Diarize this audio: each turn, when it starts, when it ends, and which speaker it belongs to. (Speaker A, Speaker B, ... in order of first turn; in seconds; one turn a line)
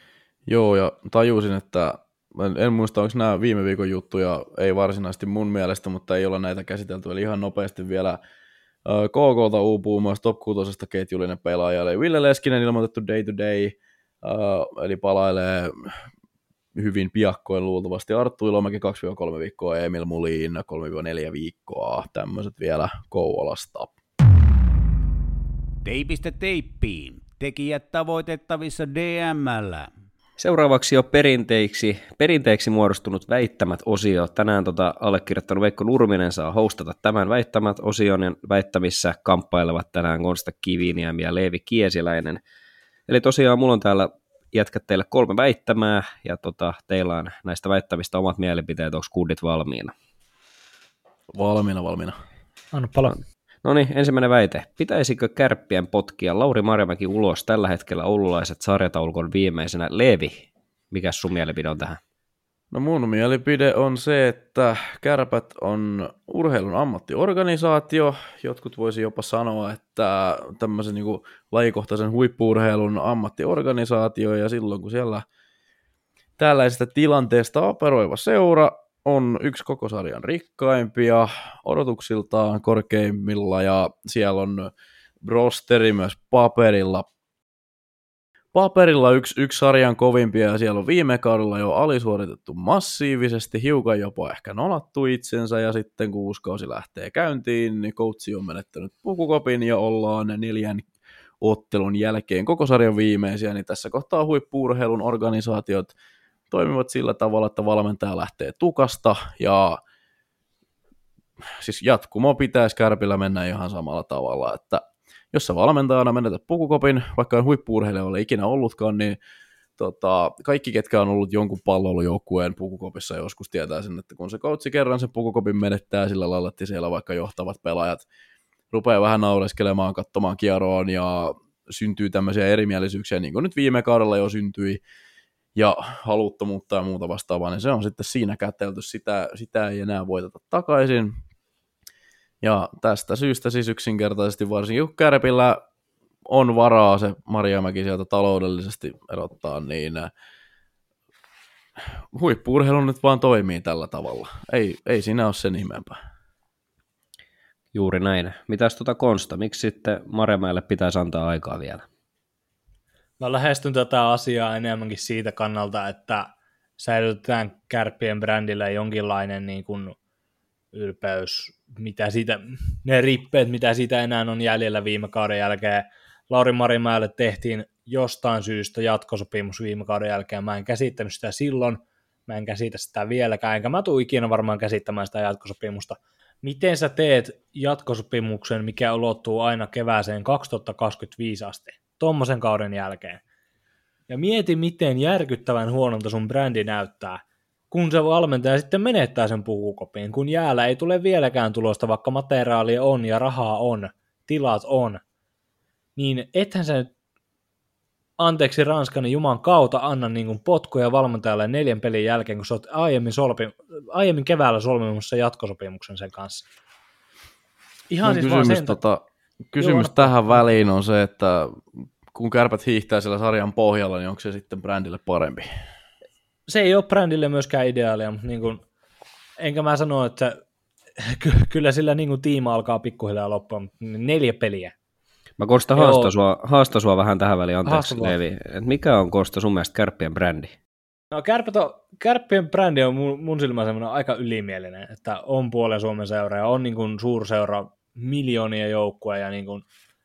Speaker A: 0.5-8.2
Speaker A: 8.8-16.0
Speaker A: 16.7-23.9
Speaker B: 25.8-29.9
Speaker C: 30.4-42.4
Speaker C: 43.1-49.9
Speaker A: 51.3-52.2
Speaker D: 52.7-53.2
Speaker C: 53.6-62.0
Speaker A: 62.7-75.2
Speaker A: 76.4-84.7
Speaker A: 85.2-87.1
Speaker A: 88.5-100.8
Speaker A: 101.4-105.9
Speaker A: 106.5-109.8
Speaker A: 111.6-119.2
Speaker A: 119.8-128.0
Speaker A: 128.7-134.8
Speaker A: 135.6-141.2
Speaker A: 142.4-145.6
Speaker A: 146.3-150.1
Speaker A: 152.1-156.0
Speaker C: 157.7-161.8
Speaker D: 163.2-169.9
Speaker D: 170.7-193.2
Speaker D: 194.1-205.0
Speaker D: 205.9-206.9
Speaker D: 208.2-216.4
Speaker D: 217.9-218.8
Speaker A: 218.0-225.5
Speaker D: 219.6-220.4
Speaker D: 226.5-228.6
Speaker D: 229.4-230.4
Speaker D: 231.0-234.7
Speaker C: 235.4-240.5
Speaker D: 235.8-236.1
Speaker D: 237.6-238.1
Speaker D: 241.1-249.6